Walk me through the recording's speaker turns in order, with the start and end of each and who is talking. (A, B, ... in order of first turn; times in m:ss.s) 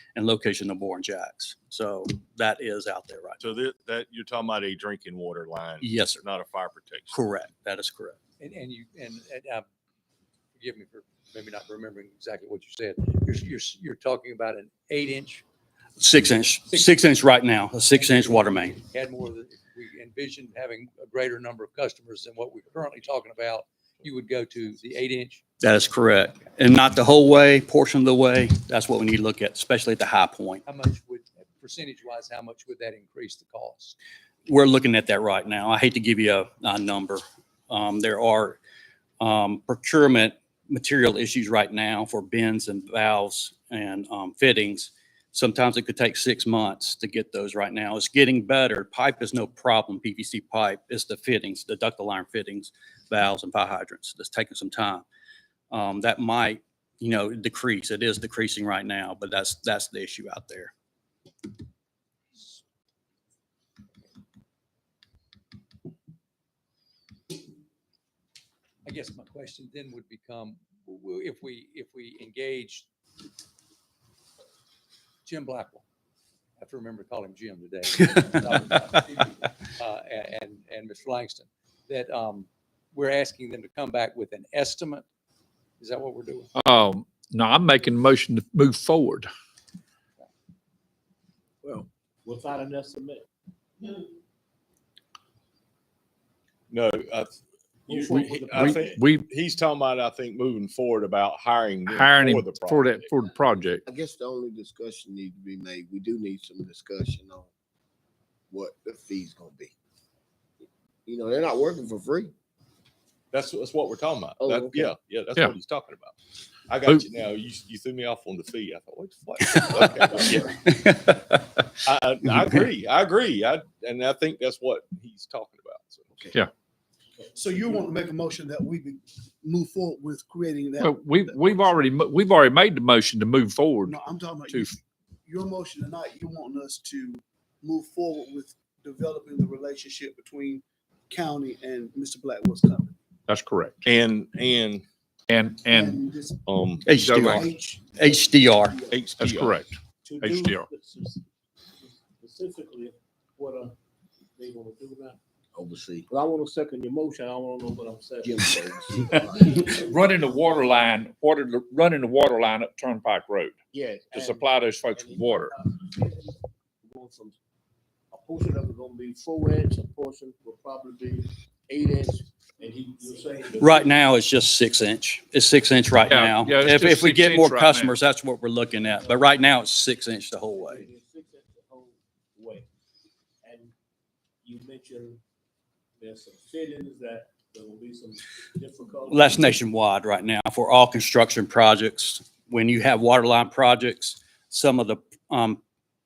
0:00.2-0:03.4 A
0:03.4-0:07.2 B
0:05.8-0:06.2 A
0:07.1-0:08.2 A
0:08.4-0:09.6 C
0:10.6-0:15.4 C
0:16.0-0:18.8 A
0:16.7-0:17.0 C
0:17.9-0:25.4 C
0:25.6-0:30.6 A
0:30.6-0:34.0 C
0:34.5-0:38.6 A
0:39.2-0:55.0 A
0:55.7-1:00.7 A
1:08.8-1:12.9 C
1:15.2-1:15.8 C
1:16.6-1:25.0 C
1:25.8-1:26.5 C
1:26.6-1:29.3 D
1:31.6-1:33.2 E
1:36.7-1:43.1 B
1:37.9-1:39.0 E
1:38.1-1:39.2 D
1:41.9-1:43.8 D
1:43.8-1:47.5 F
1:48.5-1:49.7 F
1:51.1-1:52.3 F
1:53.3-1:56.1 B
1:54.4-1:54.9 F
1:56.7-2:00.6 B
1:59.4-2:01.6 A
2:01.8-2:06.2 B
2:07.3-2:11.6 G
2:10.8-2:14.7 D
2:13.8-2:22.9 G
2:23.3-2:23.9 D
2:23.8-2:24.8 B
2:25.3-2:26.0 D
2:25.6-2:26.4 G
2:26.4-2:27.0 B
2:26.9-2:28.8 A
2:26.9-2:27.4 D
2:27.0-2:29.0 G
2:28.9-2:29.7 B
2:29.2-2:30.7 D
2:30.0-2:31.2 E
2:31.8-2:33.8 E
2:34.4-2:35.2 E
2:35.5-2:36.1 F
2:36.1-2:38.9 E
2:38.2-2:39.7 F
2:39.4-2:43.6 D
2:43.7-2:44.2 E
2:44.1-2:45.5 D
2:44.9-2:45.9 E
2:46.9-2:47.3 E
2:48.1-2:54.0 E
2:53.6-3:00.9 A
2:56.0-2:57.9 D
3:00.6-3:02.7 E
3:03.4-3:03.7 E
3:04.4-3:05.2 E
3:06.0-3:09.6 E
3:09.1-3:15.6 A